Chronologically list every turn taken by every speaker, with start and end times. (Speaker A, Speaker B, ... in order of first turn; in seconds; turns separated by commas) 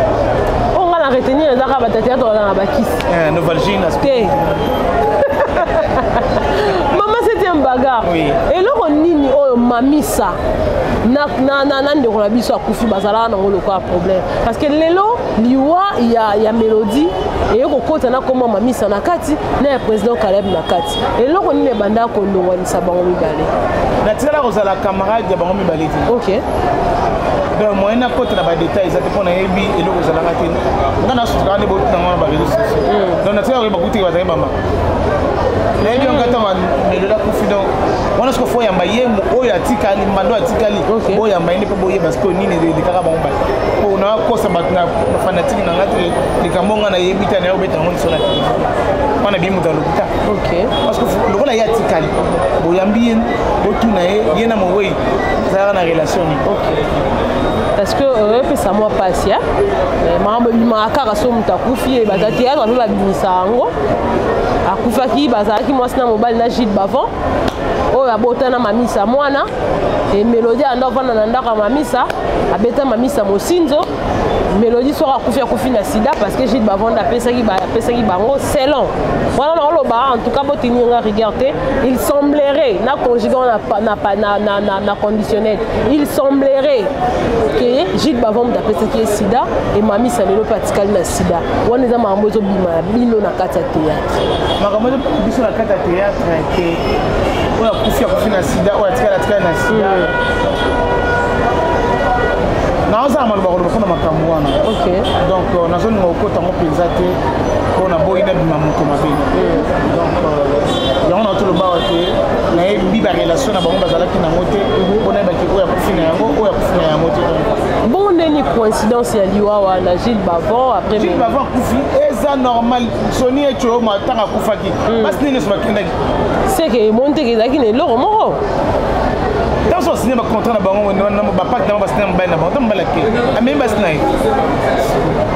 Speaker A: 0.7-3.0, Speaker B: 3.0-4.6, Speaker A: 4.0-4.3, Speaker A: 5.3-10.4, Speaker B: 8.0-8.4, Speaker A: 11.0-23.5, Speaker B: 24.0-26.1, Speaker A: 26.1-26.4, Speaker B: 27.6-34.5, Speaker A: 32.9-33.2, Speaker A: 35.8-36.4, Speaker B: 35.8-50.1, Speaker A: 40.9-41.2, Speaker A: 50.2-50.7, Speaker B: 50.8-56.5, Speaker A: 56.4-56.8, Speaker A: 57.8-59.4, Speaker A: 60.0-63.7, Speaker B: 62.1-62.4, Speaker A: 64.7-67.1, Speaker A: 67.9-69.5, Speaker A: 70.1-73.9, Speaker A: 74.5-86.9, Speaker A: 87.5-94.1, Speaker B: 94.6-96.8, Speaker B: 97.6-100.1, Speaker A: 99.7-100.1, Speaker B: 102.9-104.6, Speaker A: 104.6-105.1, Speaker B: 105.2-107.2, Speaker B: 107.7-117.6, Speaker A: 109.3-109.7, Speaker A: 114.8-115.0, Speaker A: 117.8-121.4, Speaker B: 120.9-125.9, Speaker A: 124.9-125.2, Speaker A: 126.5-128.4, Speaker B: 129.7-134.0